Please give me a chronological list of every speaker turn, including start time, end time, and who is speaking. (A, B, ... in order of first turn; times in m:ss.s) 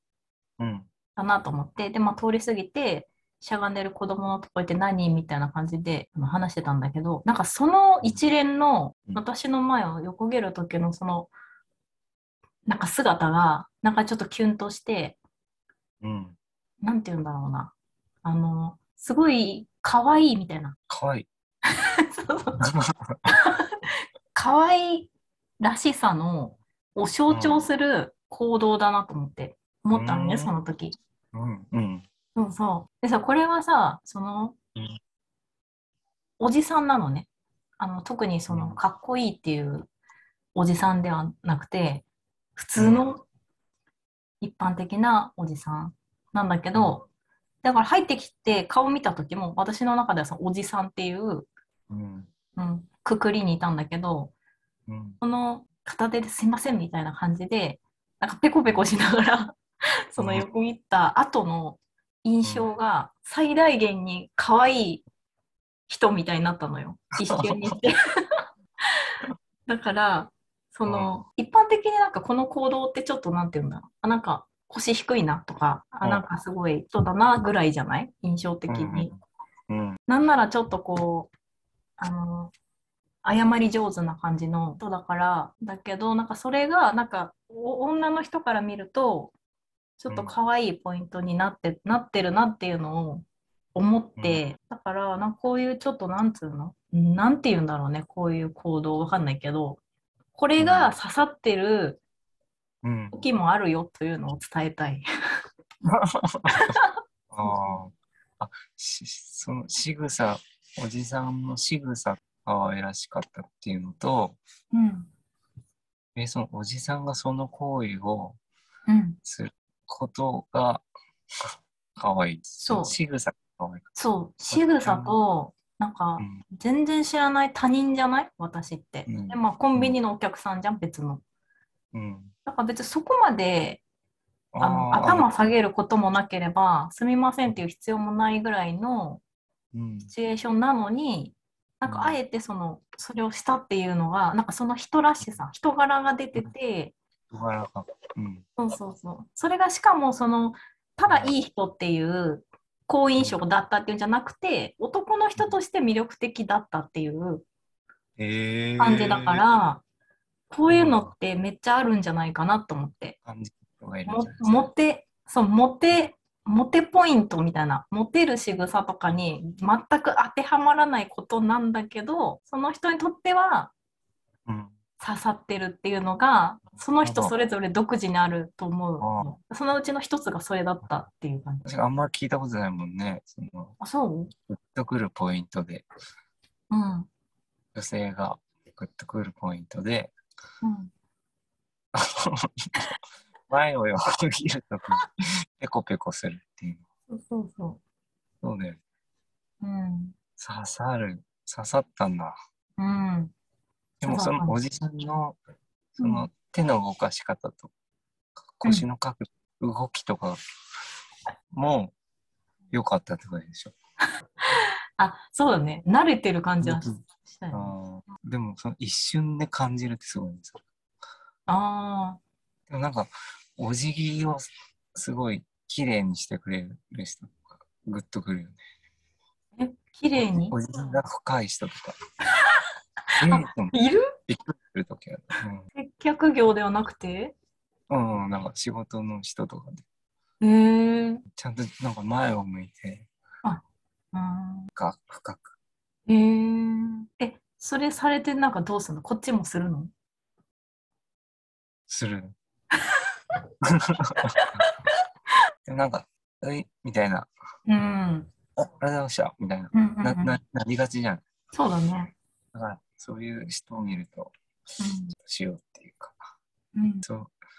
0:00.6-0:00.9 A
0:01.2-0:11.3 B
0:12.7-0:15.2 B
0:16.0-0:16.4 A
0:16.8-0:20.8 B
0:20.9-0:21.3 A
0:22.1-0:22.6 B
0:22.6-0:23.2 A
0:23.3-0:23.8 B
0:24.3-0:25.1 B
0:25.6-0:31.0 B
0:27.3-0:27.7 A
0:29.9-0:30.5 A
0:31.3-0:32.1 A
0:32.4-0:34.6 B
0:36.4-0:37.3 B
0:37.8-0:39.9 B
0:38.5-0:38.8 A
0:40.5-0:43.2 B
0:42.8-0:43.1 A
0:44.4-0:47.0 B
0:46.7-0:47.0 A
0:47.6-0:51.5 B
0:51.9-0:52.3 A
0:52.6-0:54.3 B
0:54.9-0:55.2 A
0:55.2-0:59.6 B
0:58.7-0:58.9 A
1:00.1-1:05.0 B
1:00.2-1:00.5 A
1:02.4-1:02.7 A
1:05.9-1:07.9 B
1:07.3-1:07.8 A
1:09.7-1:19.1 B
1:10.9-1:11.2 A
1:16.0-1:16.3 A
1:18.7-1:19.2 A
1:19.7-1:20.0 A
1:20.1-1:21.3 B
1:22.0-1:22.5 B
1:23.2-1:29.3 B
1:30.0-1:39.8 B
1:34.2-1:34.4 A
1:40.3-1:42.0 B
1:40.6-1:40.9 A
1:42.8-1:43.2 A
1:43.1-1:45.1 B
1:45.9-1:46.8 A
1:46.5-1:46.9 B
1:47.3-1:54.4 A
1:47.4-1:47.8 B
1:54.7-1:55.1 B
1:56.2-1:58.4 A
1:58.9-1:59.2 B
1:59.2-2:00.9 A
2:02.0-2:03.9 A
2:02.6-2:03.0 B
2:04.0-2:11.2 B
2:04.5-2:05.2 A
2:09.1-2:10.0 A
2:11.9-2:12.3 A
2:12.5-2:13.8 B
2:14.5-2:15.3 A
2:14.6-2:19.2 B
2:19.7-2:20.1 A
2:20.1-2:27.0 B
2:21.9-2:22.2 A
2:27.3-2:28.4 A
2:28.6-2:37.5 B
2:31.1-2:31.3 A
2:33.2-2:33.4 A
2:38.2-2:39.4 A
2:38.8-2:39.8 B
2:40.5-2:43.2 B
2:40.7-2:41.1 A
2:43.3-2:44.7 A
2:44.1-2:53.7 B
2:54.5-2:54.7 A
2:55.0-3:01.6 B
2:57.0-2:57.4 A
2:59.0-2:59.3 A
3:01.6-3:03.8 A
3:03.8-3:04.3 B
3:04.5-3:05.9 A
3:06.7-3:07.1 B
3:07.7-3:10.2 A
3:10.6-3:10.9 B
3:12.0-3:12.5 A
3:13.5-3:15.0 A
3:15.6-3:16.8 A
3:17.1-3:17.8 B
3:18.4-3:18.8 A
3:19.6-3:20.2 B
3:20.4-3:22.3 A
3:22.8-3:23.3 B
3:24.0-3:25.4 A
3:24.0-3:24.6 B
3:26.0-3:27.7 A
3:26.0-3:26.3 B
3:28.4-3:30.4 A
3:31.5-3:31.9 A
3:32.7-3:33.8 A
3:35.0-3:37.8 B
3:36.6-3:37.0 A
3:37.5-3:40.6 A
3:41.5-3:42.2 B
3:42.7-3:48.6 A
3:49.6-3:50.6 B
3:50.2-3:52.0 A
3:53.2-3:53.8 A
3:53.3-3:54.0 B
3:54.3-3:55.7 A
3:55.8-3:57.4 B
3:57.9-3:59.8 A
4:00.4-4:01.2 B
4:01.3-4:03.1 A
4:04.1-4:04.7 B
4:04.8-4:05.5 A
4:06.1-4:09.9 B
4:11.9-4:12.4 A
4:13.9-4:14.3 A
4:14.3-4:14.8 B
4:15.7-4:17.3 A
4:17.7-4:18.3 B
4:18.6-4:21.2 A
4:19.7-4:20.4 B
4:21.5-4:22.2 B
4:22.5-4:24.3 A
4:24.8-4:25.2 B
4:25.2-4:26.3 A
4:26.8-4:27.0 B
4:27.0-4:27.3 A